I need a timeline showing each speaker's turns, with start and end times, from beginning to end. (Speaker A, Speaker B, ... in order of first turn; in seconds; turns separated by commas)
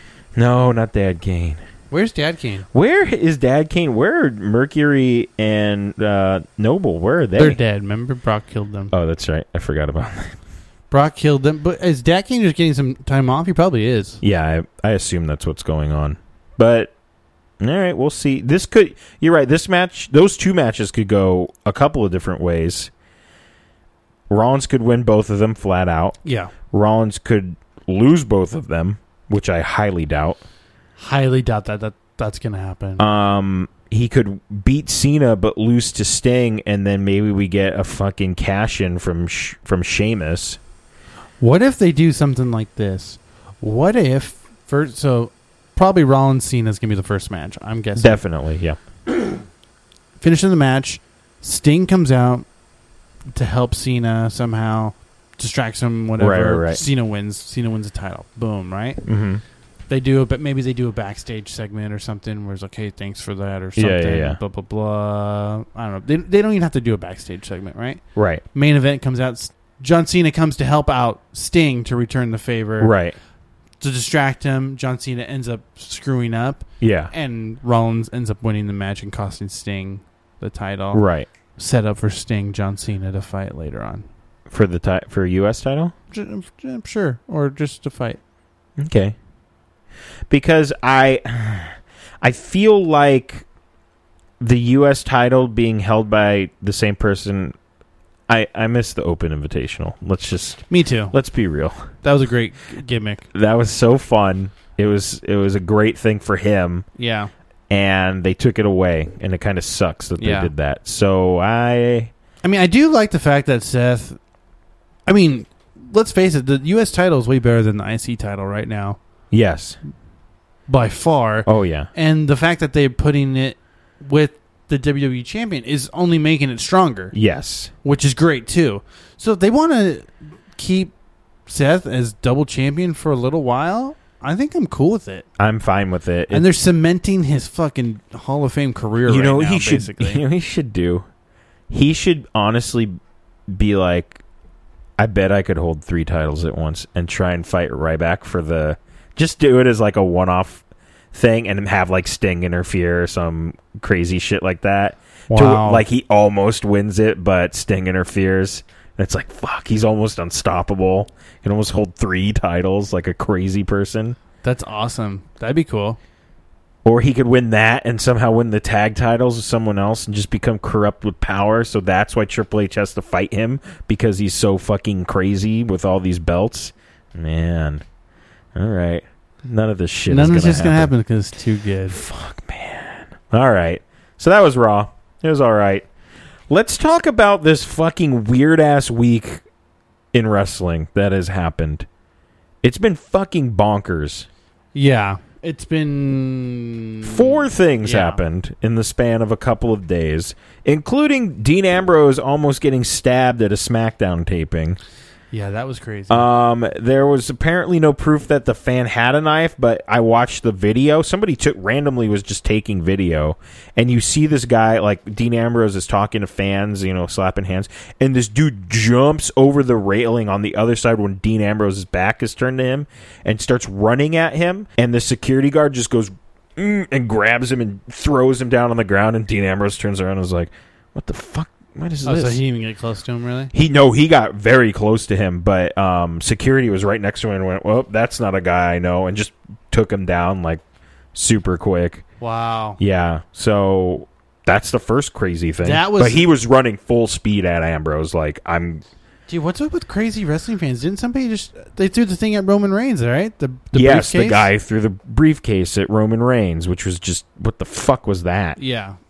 Speaker A: 0.3-1.6, Speaker B: 1.9-2.7, Speaker A: 2.7-7.6, Speaker B: 7.4-8.9, Speaker A: 8.9-10.4, Speaker B: 10.9-14.2, Speaker A: 14.2-16.9, Speaker A: 17.6-22.9, Speaker A: 24.3-26.2, Speaker B: 26.2-26.5, Speaker A: 26.7-30.4, Speaker B: 31.0-33.0, Speaker A: 33.0-40.6, Speaker B: 41.4-48.2, Speaker A: 48.0-48.8, Speaker B: 50.2-52.5, Speaker B: 53.3-59.0, Speaker A: 56.2-56.8, Speaker A: 59.0-59.4, Speaker B: 59.9-68.0, Speaker A: 63.8-64.4, Speaker A: 68.2-68.4, Speaker B: 68.5-72.9, Speaker A: 72.8-73.2, Speaker B: 73.8-81.0, Speaker A: 76.8-77.1, Speaker A: 80.9-81.3, Speaker B: 81.6-84.1, Speaker A: 84.5-85.9, Speaker B: 86.1-88.2, Speaker A: 88.8-89.2, Speaker A: 90.3-93.5, Speaker A: 94.4-97.6, Speaker A: 98.3-101.9, Speaker B: 100.7-101.2, Speaker B: 102.0-103.3, Speaker A: 103.3-106.9, Speaker B: 107.0-107.3, Speaker A: 107.7-112.1, Speaker B: 110.2-110.5, Speaker B: 112.4-114.2, Speaker B: 115.1-119.0, Speaker A: 119.3-119.8, Speaker B: 120.7-127.2, Speaker A: 121.5-121.9, Speaker A: 127.1-127.7, Speaker B: 127.8-130.9, Speaker B: 131.5-135.3, Speaker A: 135.4-136.4, Speaker B: 136.3-140.2, Speaker A: 139.1-141.1, Speaker A: 141.7-142.9, Speaker A: 143.5-144.2, Speaker A: 145.0-164.2, Speaker B: 155.3-155.8, Speaker B: 164.4-166.0, Speaker A: 166.8-177.8, Speaker A: 178.6-180.9, Speaker B: 180.1-182.0, Speaker A: 181.9-185.9, Speaker A: 186.5-189.4, Speaker A: 190.1-191.9, Speaker A: 192.6-194.3, Speaker B: 194.7-198.2, Speaker A: 197.0-204.8, Speaker B: 205.3-206.3, Speaker A: 206.1-232.4, Speaker B: 232.1-233.5, Speaker A: 233.5-240.6, Speaker A: 241.1-242.1, Speaker B: 242.2-242.8, Speaker A: 242.8-248.8, Speaker B: 245.6-246.2, Speaker B: 249.3-254.5, Speaker A: 253.7-258.6, Speaker B: 258.6-259.0